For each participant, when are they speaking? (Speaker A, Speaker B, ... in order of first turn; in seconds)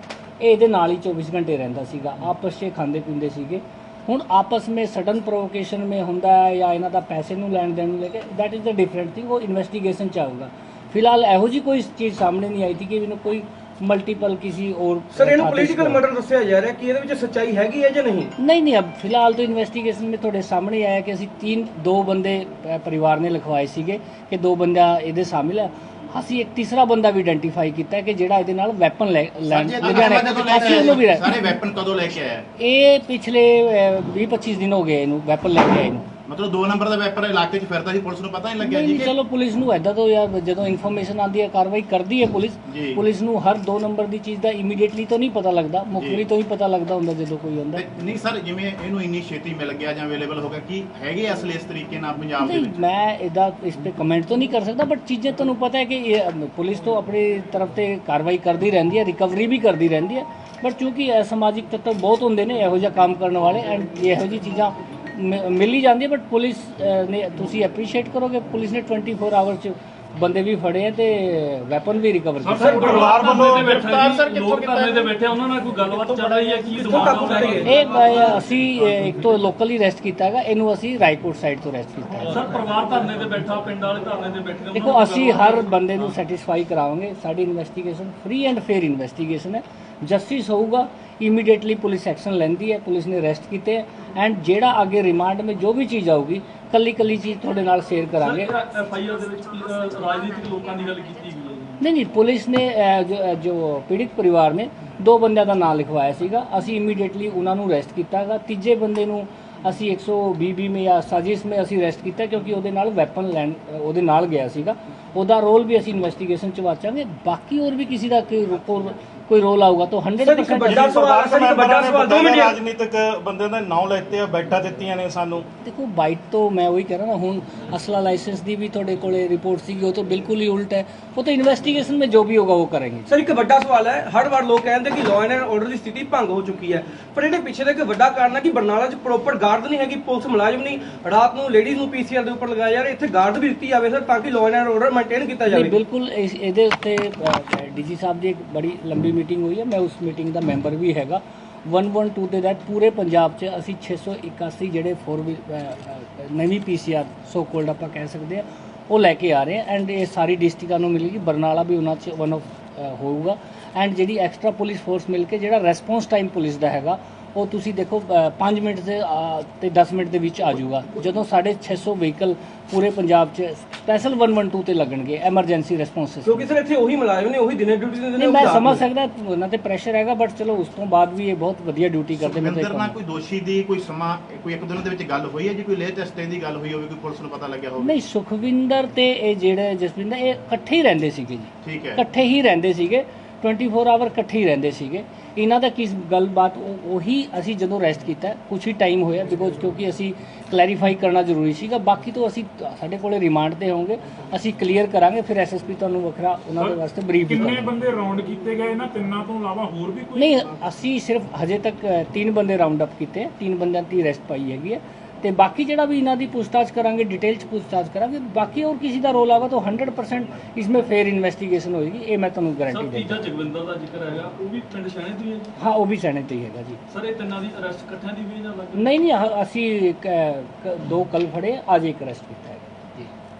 Speaker A: 0.4-16.0, 18.4-31.3, 32.6-36.1, 38.6-47.8, 52.4-73.1, 77.6-82.5, 84.7-98.5, 101.8-121.0, 125.6-133.1, 145.5-176.4, 178.2-182.9, 187.8-207.7, 210.1-223.3, 225.6-226.8, 228.7-233.1
Speaker B: 15.1-18.3, 72.6-73.0, 74.3-75.0, 76.2-78.4, 120.2-122.6, 133.1-145.8, 176.2-178.8
Speaker C: 29.5-32.5, 36.3-39.1, 42.7-43.0, 46.0-46.2, 47.7-52.8, 182.2-187.9, 191.6-192.0
Speaker D: 72.4-78.1, 82.3-85.7, 98.2-101.8, 222.7-225.5, 226.9-229.0
Speaker E: 72.7-74.3, 120.6-125.5
Speaker F: 206.6-210.6